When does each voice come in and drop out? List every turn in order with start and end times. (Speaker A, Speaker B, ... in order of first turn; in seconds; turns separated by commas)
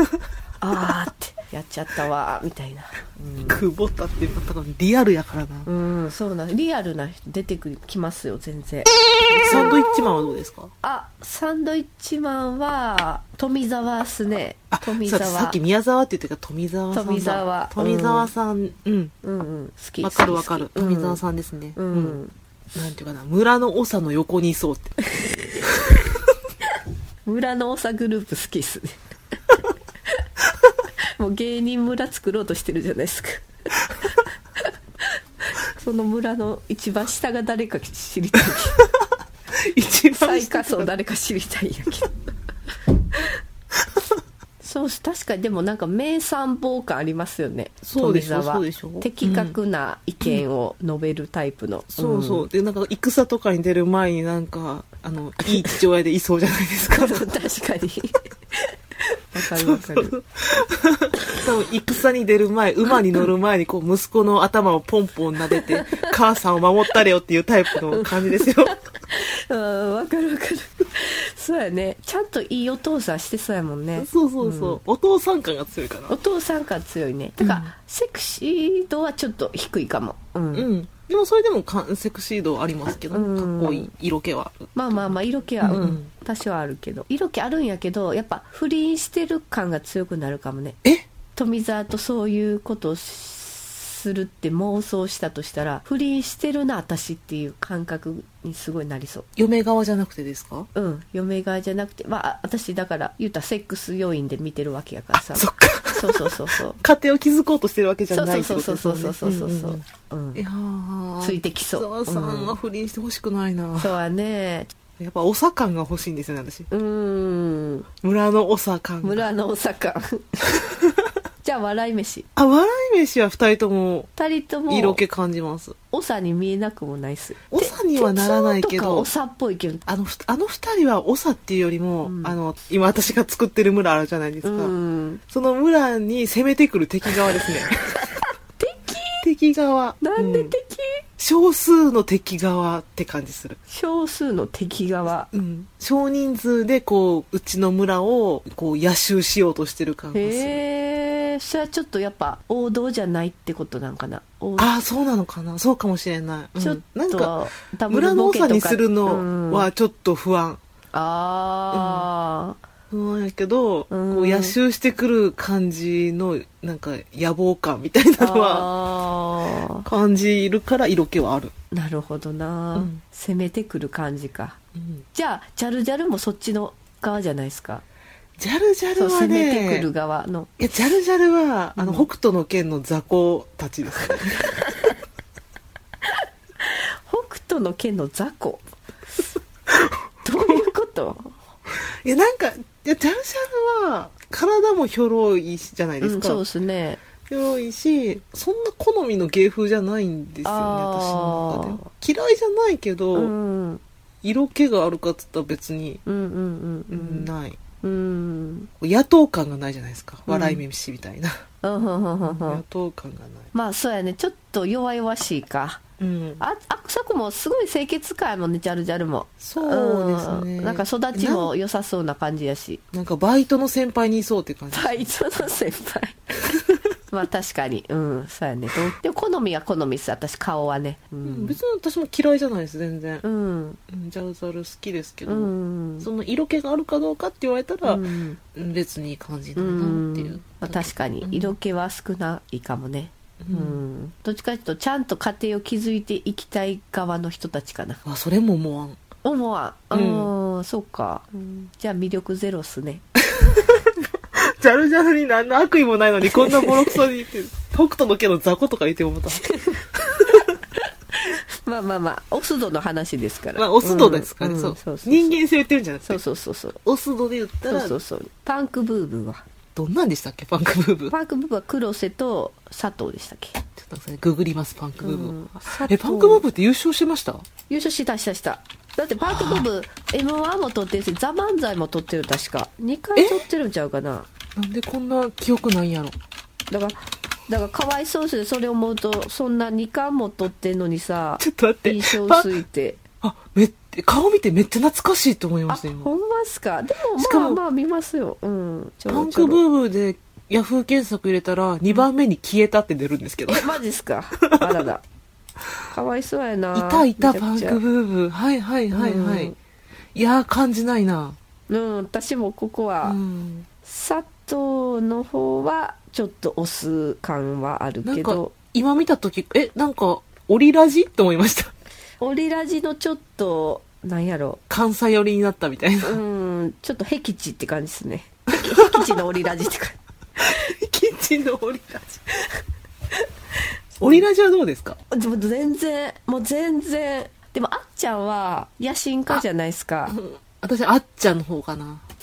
Speaker A: 0.6-3.6, Speaker B: 3.5-5.7, Speaker A: 5.7-9.8, Speaker B: 9.4-10.7, Speaker A: 10.8-15.6, Speaker B: 14.7-19.1, Speaker A: 16.9-18.3, Speaker A: 19.2-21.2, Speaker B: 20.0-22.2, Speaker A: 21.8-22.3, Speaker B: 22.7-25.0, Speaker A: 27.2-29.0, Speaker A: 31.2-33.4, Speaker A: 35.7-38.8, Speaker B: 39.7-40.9, Speaker A: 40.1-42.1, Speaker A: 44.6-52.5, Speaker B: 47.8-49.5, Speaker B: 52.0-57.2, Speaker A: 56.9-60.1, Speaker B: 59.5-68.8, Speaker A: 65.5-66.1, Speaker A: 67.9-74.8, Speaker B: 74.0-76.2, Speaker A: 76.1-80.7, Speaker B: 77.4-77.7, Speaker B: 80.5-85.1, Speaker A: 83.1-83.9, Speaker A: 84.7-90.8, Speaker B: 85.6-86.1, Speaker A: 91.3-99.3, Speaker B: 99.3-100.7, Speaker A: 100.7-106.8, Speaker B: 105.3-109.8, Speaker A: 108.1-110.4, Speaker B: 110.3-114.0, Speaker A: 111.2-112.5, Speaker A: 113.8-114.7, Speaker B: 115.0-116.7, Speaker A: 116.7-117.9, Speaker B: 118.0-119.3, Speaker A: 119.0-120.4, Speaker A: 121.4-122.3, Speaker B: 122.3-124.1, Speaker A: 124.2-125.0, Speaker B: 124.7-125.8, Speaker A: 125.9-129.8, Speaker B: 127.5-129.1, Speaker B: 129.9-134.7, Speaker A: 132.0-132.4, Speaker A: 134.4-135.2, Speaker B: 135.3-138.1, Speaker A: 137.9-139.2, Speaker B: 139.2-140.5, Speaker A: 140.0-141.0, Speaker B: 141.2-143.6, Speaker A: 143.7-145.3, Speaker B: 145.3-150.6, Speaker A: 150.1-154.7, Speaker B: 154.6-157.3, Speaker A: 156.6-159.7, Speaker B: 157.9-160.6, Speaker A: 160.9-162.6, Speaker B: 161.7-162.1, Speaker B: 162.9-168.7, Speaker A: 163.9-164.6, Speaker A: 168.2-169.8, Speaker B: 169.8-171.5, Speaker A: 171.7-174.6, Speaker B: 172.7-173.0, Speaker B: 174.8-175.0, Speaker A: 175.1-177.8, Speaker B: 178.4-179.9, Speaker A: 178.9-180.5, Speaker B: 180.6-184.7, Speaker A: 181.8-182.1, Speaker A: 184.6-184.9, Speaker A: 186.1-188.6, Speaker B: 189.7-190.7, Speaker A: 190.2-191.4, Speaker B: 191.8-196.4, Speaker A: 196.0-197.0, Speaker B: 197.3-203.3, Speaker A: 200.4-201.8, Speaker A: 203.1-203.8, Speaker B: 204.2-206.0, Speaker A: 206.1-207.3, Speaker B: 206.9-207.6, Speaker A: 207.8-208.7, Speaker B: 208.8-211.4, Speaker A: 210.3-210.6, Speaker A: 211.6-212.6, Speaker B: 212.2-213.5, Speaker A: 213.5-215.8, Speaker B: 216.0-216.4, Speaker A: 216.4-222.8, Speaker B: 219.4-221.5, Speaker B: 222.9-225.1, Speaker A: 224.7-226.2, Speaker A: 227.1-231.6, Speaker B: 231.2-233.2, Speaker A: 233.2-233.8, Speaker B: 233.9-241.5, Speaker A: 235.2-236.1, Speaker A: 237.8-238.4, Speaker A: 239.6-248.0, Speaker B: 243.4-243.8, Speaker B: 248.1-249.0, Speaker A: 249.2-253.0, Speaker B: 249.9-250.3, Speaker B: 253.3-253.8, Speaker B: 254.4-260.5, Speaker A: 256.3-257.0, Speaker A: 259.4-259.8, Speaker A: 261.2-265.4, Speaker B: 263.6-266.2, Speaker A: 266.0-266.8, Speaker B: 266.8-267.9, Speaker A: 267.7-269.4, Speaker B: 269.8-271.1, Speaker A: 271.1-273.6, Speaker B: 273.7-277.4, Speaker A: 275.0-276.4, Speaker A: 277.7-284.3, Speaker B: 279.2-279.7, Speaker B: 283.1-283.4, Speaker B: 284.6-286.1, Speaker A: 286.7-293.0, Speaker B: 291.4-292.6, Speaker B: 293.2-296.1, Speaker A: 295.7-299.6, Speaker B: 297.2-297.6, Speaker B: 299.1-303.8, Speaker A: 303.5-305.0, Speaker B: 304.4-304.8, Speaker A: 305.9-307.8, Speaker B: 306.7-309.5, Speaker A: 308.9-309.5, Speaker B: 310.1-311.4, Speaker A: 311.7-313.2, Speaker B: 313.0-313.7, Speaker A: 313.8-318.5, Speaker B: 318.0-321.7, Speaker A: 322.2-324.6, Speaker B: 324.7-326.2, Speaker A: 326.0-330.0, Speaker B: 328.5-329.5, Speaker B: 330.4-332.2, Speaker A: 334.0-334.2, Speaker B: 334.0-335.0, Speaker A: 335.1-340.2, Speaker B: 340.1-342.0